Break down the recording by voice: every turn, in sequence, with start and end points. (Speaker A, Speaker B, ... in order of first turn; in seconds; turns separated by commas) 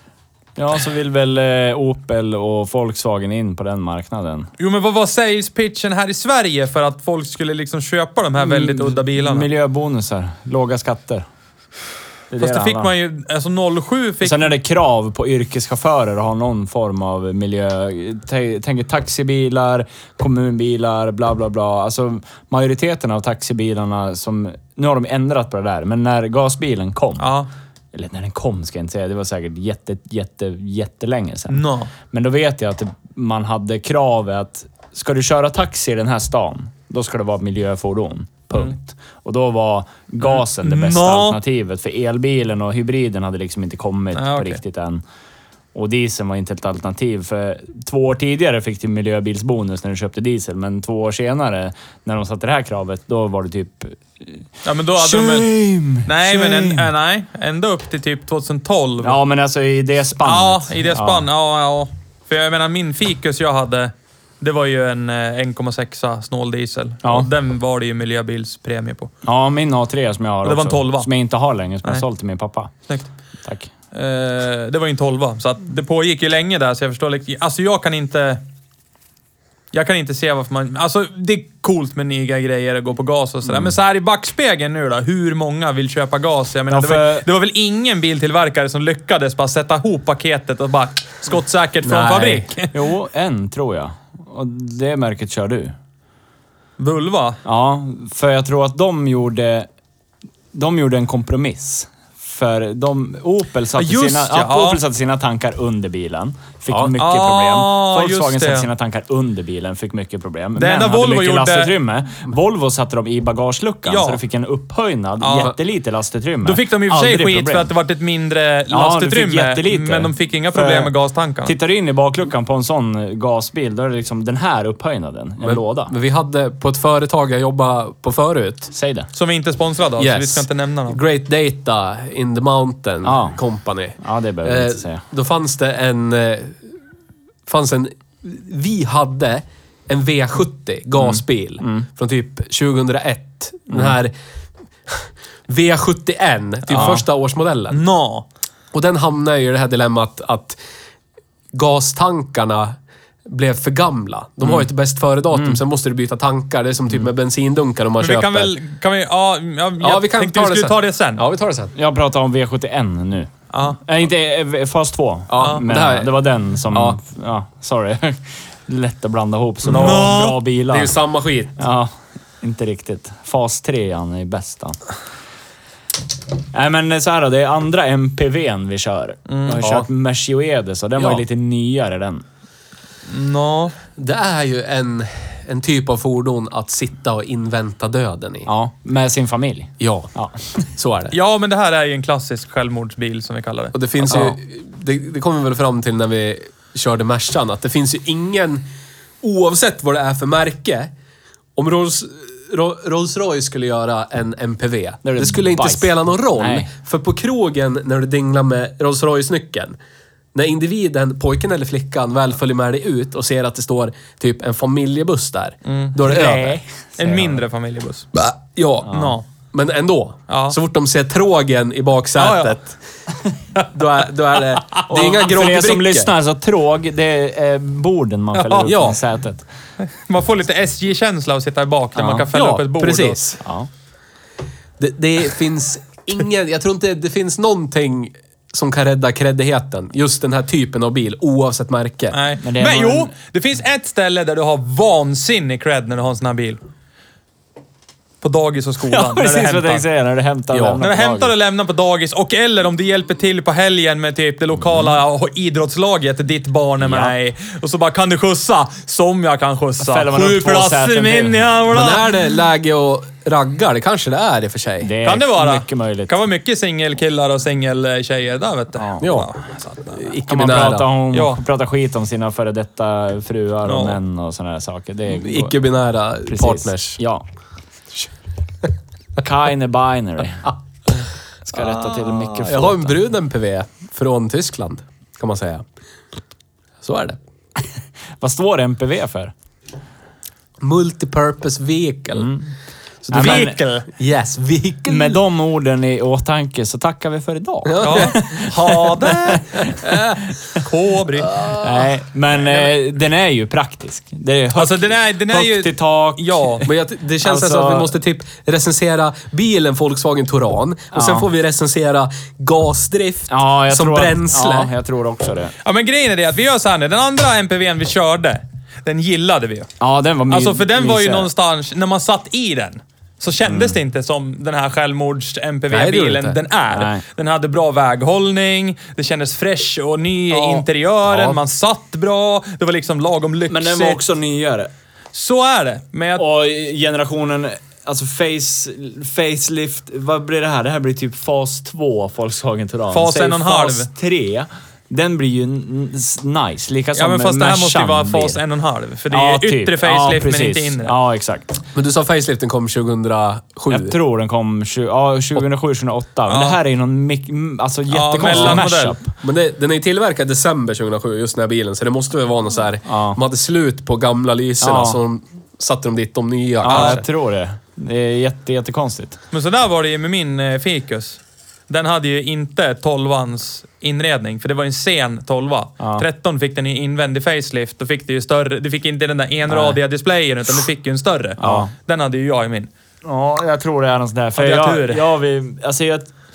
Speaker A: 0.6-4.5, Speaker B: 4.6-9.5, Speaker A: 8.4-11.2, Speaker A: 12.3-12.9, Speaker B: 12.4-14.5, Speaker A: 14.2-27.2, Speaker B: 27.2-27.5, Speaker A: 27.9-45.0, Speaker B: 31.5-31.9, Speaker B: 40.2-41.4, Speaker B: 44.1-44.6, Speaker A: 45.7-54.4, Speaker B: 54.6-55.5, Speaker A: 55.0-56.9, Speaker B: 56.0-59.2, Speaker A: 59.0-61.2, Speaker B: 60.2-69.1, Speaker A: 67.0-67.3, Speaker A: 69.2-72.7, Speaker B: 70.4-71.1, Speaker A: 73.4-73.7, Speaker B: 73.9-78.4, Speaker B: 79.7-92.7, Speaker A: 86.7-87.2, Speaker C: 91.8-92.5, Speaker A: 92.7-95.7, Speaker B: 96.8-97.4, Speaker A: 97.4-99.7, Speaker A: 100.5-117.7, Speaker B: 103.8-104.8, Speaker B: 107.0-108.7, Speaker B: 110.5-111.7, Speaker B: 113.9-114.2, Speaker B: 115.2-115.5, Speaker B: 116.4-121.5, Speaker A: 118.7-120.9, Speaker A: 121.4-125.9, Speaker C: 125.4-128.7, Speaker A: 128.7-129.1, Speaker B: 129.1-131.0, Speaker C: 130.0-136.6, Speaker A: 133.0-133.4, Speaker A: 134.0-135.0, Speaker C: 137.5-144.1, Speaker C: 144.9-147.8, Speaker B: 146.7-147.0, Speaker A: 146.7-147.0, Speaker B: 147.7-148.2, Speaker C: 148.7-150.6, Speaker C: 151.5-158.5, Speaker A: 155.3-155.6, Speaker B: 158.0-161.2, Speaker C: 159.8-161.7, Speaker A: 161.7-170.9, Speaker B: 163.5-163.8, Speaker C: 165.3-166.1, Speaker B: 165.4-165.6, Speaker C: 166.7-167.0, Speaker B: 169.7-170.4, Speaker C: 169.7-170.2, Speaker C: 170.7-171.6, Speaker A: 171.6-174.8, Speaker A: 176.5-182.2, Speaker B: 179.3-179.6, Speaker C: 179.6-179.9, Speaker B: 183.1-183.8, Speaker C: 183.9-188.5, Speaker A: 188.4-190.4, Speaker C: 189.8-190.1, Speaker C: 190.8-191.2, Speaker B: 191.1-193.7, Speaker C: 193.7-198.7, Speaker C: 199.2-200.9, Speaker C: 201.6-209.8, Speaker A: 205.0-206.7, Speaker C: 210.3-216.6, Speaker B: 215.7-216.4, Speaker A: 216.0-217.4, Speaker B: 217.0-218.1, Speaker C: 218.1-222.8, Speaker A: 218.8-219.1, Speaker B: 218.9-219.2, Speaker B: 220.3-220.6, Speaker B: 222.2-222.6, Speaker C: 223.6-226.1, Speaker A: 224.9-229.4, Speaker B: 228.3-228.7, Speaker C: 228.6-229.0, Speaker B: 229.8-233.2, Speaker A: 232.0-232.3, Speaker C: 232.3-233.4, Speaker A: 233.4-233.7, Speaker C: 234.8-242.2, Speaker B: 242.1-246.6, Speaker A: 242.4-243.1, Speaker B: 248.2-249.8, Speaker A: 248.8-251.3, Speaker C: 250.5-250.8, Speaker B: 250.8-262.0, Speaker A: 256.8-257.1, Speaker A: 259.8-261.8, Speaker C: 261.7-264.9, Speaker A: 264.8-266.1, Speaker B: 265.0-270.1, Speaker A: 268.8-269.0, Speaker C: 269.0-269.3, Speaker C: 270.0-270.9, Speaker A: 270.3-275.5, Speaker B: 271.1-271.4, Speaker B: 273.6-274.0, Speaker C: 275.1-277.0, Speaker A: 276.2-277.2, Speaker A: 279.2-280.5, Speaker A: 281.4-283.0, Speaker C: 281.6-285.6, Speaker C: 286.8-287.2, Speaker A: 288.2-289.3, Speaker C: 290.6-292.3, Speaker A: 292.1-292.5, Speaker C: 293.0-295.2, Speaker A: 293.1-293.6, Speaker B: 293.1-293.9, Speaker A: 294.9-299.7, Speaker C: 297.7-298.4, Speaker B: 297.8-299.6, Speaker C: 299.6-300.2, Speaker B: 300.6-301.4, Speaker C: 301.3-301.9, Speaker A: 301.5-306.7, Speaker B: 304.5-306.7, Speaker C: 306.6-314.7, Speaker A: 307.2-307.9, Speaker A: 310.9-311.3, Speaker A: 313.3-315.5, Speaker B: 315.6-319.7, Speaker A: 319.8-321.3, Speaker B: 320.3-334.0, Speaker A: 323.5-323.8, Speaker C: 325.7-326.4, Speaker A: 326.7-327.0, Speaker A: 333.5-334.7, Speaker B: 335.1-336.2, Speaker A: 336.2-348.4, Speaker B: 342.9-343.9, Speaker B: 346.9-350.9, Speaker A: 349.1-351.6, Speaker C: 351.7-354.0, Speaker A: 353.7-359.1, Speaker B: 356.3-356.6, Speaker B: 357.9-359.0, Speaker C: 358.3-358.6, Speaker C: 359.2-367.0, Speaker A: 362.9-363.2, Speaker A: 364.6-365.0, Speaker A: 366.6-369.2, Speaker B: 366.7-367.0, Speaker B: 369.3-382.7, Speaker A: 379.5-379.8, Speaker A: 381.4-381.7, Speaker A: 383.0-386.1, Speaker B: 384.4-385.1